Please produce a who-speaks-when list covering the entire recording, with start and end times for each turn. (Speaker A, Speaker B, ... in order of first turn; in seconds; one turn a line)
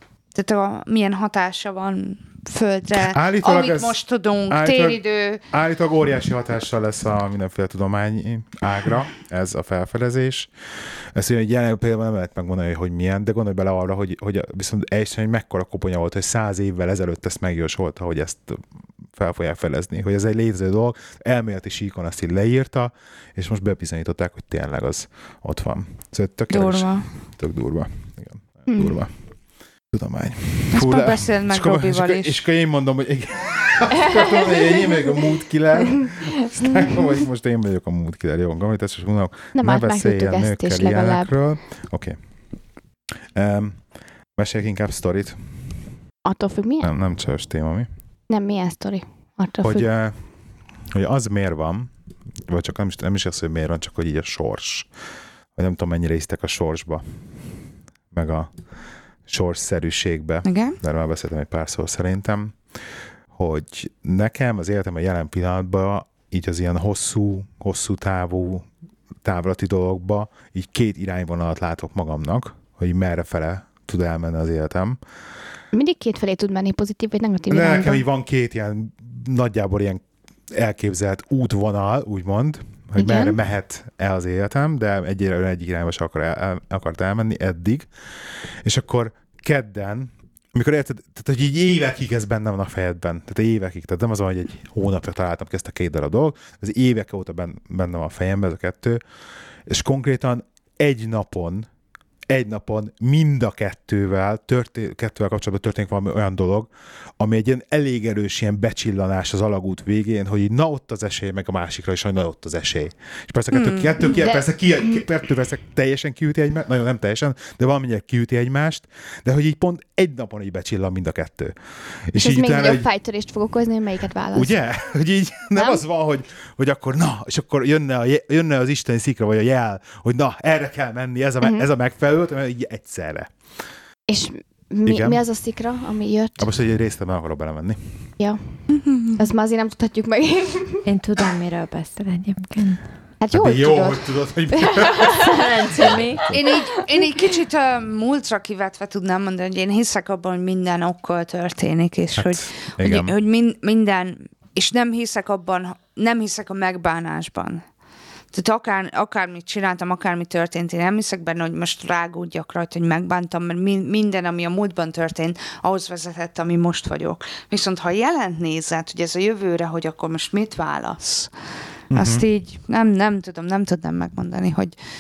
Speaker A: 0.3-5.4
Speaker B: 3.0-4.0
Speaker B: 4.5-5.0
Speaker B: 5.5-10.5
Speaker B: 11.2-18.6
Speaker B: 19.1-29.1
Speaker A: 26.5-27.1
Speaker A: 28.7-29.0
Speaker B: 29.9-42.2
Speaker A: 30.7-32.4
Speaker C: 34.1-34.9
Speaker C: 39.5-41.3
Speaker B: 43.4-43.8
Speaker B: 44.4-45.4
Speaker C: 46.2-46.9
Speaker B: 46.8-47.9
Speaker C: 48.3-49.9
Speaker B: 49.6-50.2
Speaker B: 50.9-51.9
Speaker B: 52.5-54.9
Speaker B: 55.6-57.0
Speaker B: 58.1-58.5
Speaker B: 59.3-62.6
Speaker A: 60.5-60.8
Speaker B: 63.3-68.7
Speaker B: 69.2-75.0
Speaker C: 75.7-78.0
Speaker B: 77.5-87.9
Speaker C: 83.0-83.4
Speaker B: 88.6-99.0
Speaker B: 99.7-101.7
Speaker B: 102.3-121.5
Speaker A: 113.5-114.1
Speaker B: 122.1-122.9
Speaker C: 122.2-124.5
Speaker B: 124.3-133.3
Speaker C: 125.5-125.8
Speaker C: 131.4-131.7
Speaker C: 134.1-136.5
Speaker B: 134.8-135.2
Speaker B: 136.4-137.8
Speaker A: 138.7-139.2
Speaker C: 139.2-140.8
Speaker D: 140.9-142.8
Speaker C: 143.2-145.2
Speaker B: 143.3-146.5
Speaker D: 145.2-146.3
Speaker A: 146.3-157.6
Speaker B: 152.2-153.1
Speaker A: 158.3-171.3
Speaker B: 171.9-172.3
Speaker A: 171.9-174.8